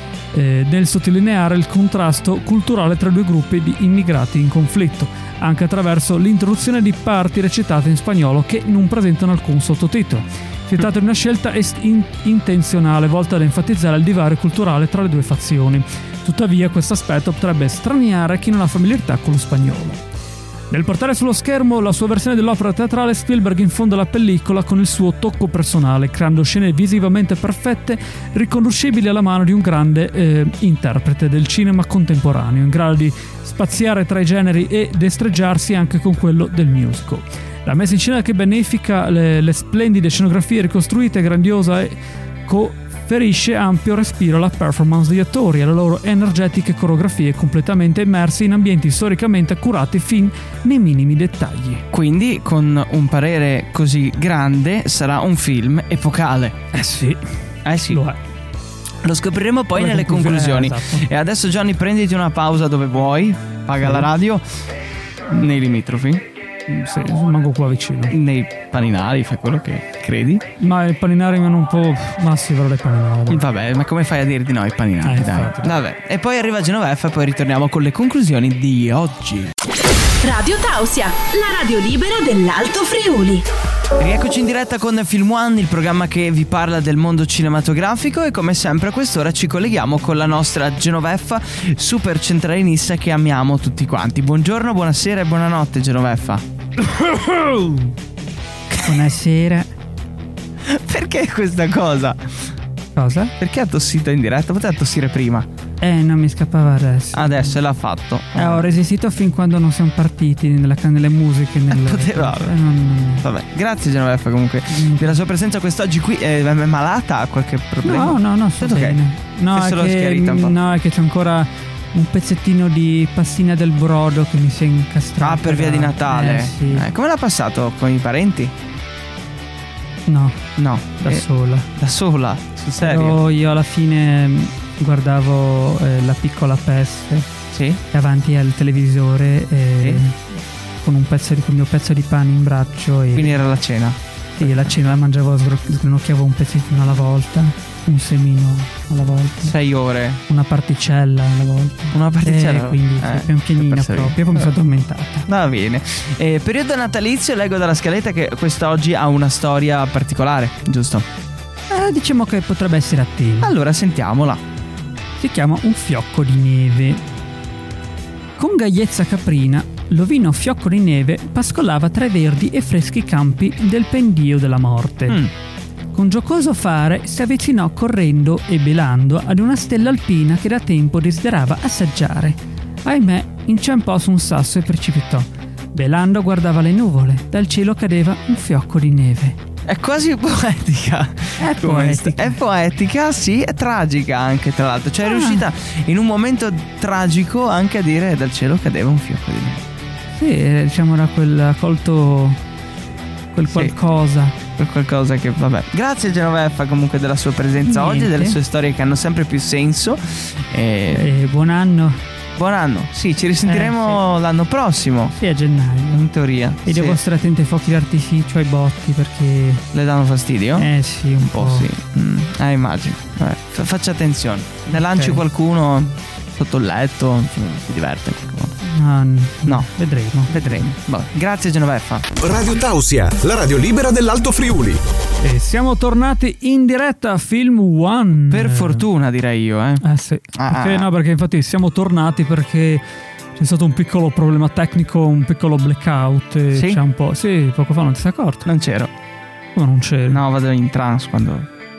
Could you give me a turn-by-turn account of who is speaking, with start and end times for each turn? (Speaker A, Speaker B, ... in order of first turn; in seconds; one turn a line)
Speaker A: 0.3-20.0
Speaker A: 20.7-51.8
Speaker B: 51.9-56.5
Speaker A: 56.7-57.2
Speaker B: 57.6-58.0
Speaker A: 57.9-58.2
Speaker B: 59.0-64.4
Speaker A: 59.7-61.1
Speaker A: 63.8-64.1
Speaker B: 65.3-66.2
Speaker A: 66.7-68.1
Speaker B: 68.1-70.4
Speaker A: 70.6-73.5
Speaker B: 73.3-79.5
Speaker A: 75.0-75.8
Speaker C: 80.2-83.5
Speaker B: 84.0-96.4
Speaker A: 96.8-97.9
Speaker A: 98.7-99.7
Speaker B: 100.7-102.2
Speaker A: 103.0-103.3
Speaker B: 103.4-105.5
Speaker A: 105.8-107.6
Speaker B: 107.1-108.7
Speaker A: 108.3-113.2
Speaker B: 111.7-112.5
Speaker B: 113.2-119.0
Speaker A: 114.7-115.2
Speaker A: 117.8-126.8
Speaker B: 119.5-120.6
Speaker B: 125.2-128.5
Speaker A: 130.1-130.4
Speaker B: 130.6-131.2
Speaker A: 131.0-131.7
Speaker B: 131.8-133.2
Speaker A: 132.8-137.3
Speaker B: 137.5-137.8
Speaker A: 137.9-140.2
Speaker A: 140.8-143.3
Speaker B: 143.1-144.8
Speaker A: 144.4-149.6
Speaker B: 149.4-150.2
Speaker A: 150.3-155.2
Speaker B: 151.9-154.5
Speaker B: 155.3-161.0
Speaker A: 161.7-163.5
Speaker B: 163.4-164.4
Speaker A: 165.2-167.0
Speaker A: 168.4-175.3
Speaker A: 175.9-189.4
Speaker B: 189.7-199.6
Speaker A: 191.4-192.4
Speaker A: 195.0-195.4
Speaker A: 200.1-202.4
Speaker A: 203.3-204.3
Speaker B: 203.5-203.7
Speaker B: 204.6-211.1
Speaker A: 207.6-208.4
Speaker A: 210.9-212.0
Speaker B: 212.4-215.1
Speaker A: 213.4-214.0
Speaker A: 215.1-216.0
Speaker B: 215.9-217.0
Speaker A: 216.6-219.6
Speaker B: 219.7-220.7
Speaker A: 220.6-221.7
Speaker B: 221.2-228.6
Speaker A: 224.7-225.2
Speaker A: 228.6-230.7
Speaker B: 230.3-232.1
Speaker D: 232.2-234.8
Speaker A: 235.2-238.8
Speaker B: 238.3-239.8
Speaker A: 239.8-242.8
Speaker B: 240.3-240.9
Speaker A: 243.3-248.4
Speaker B: 246.5-246.8
Speaker B: 248.4-248.9
Speaker A: 249.5-250.2
Speaker B: 250.1-251.5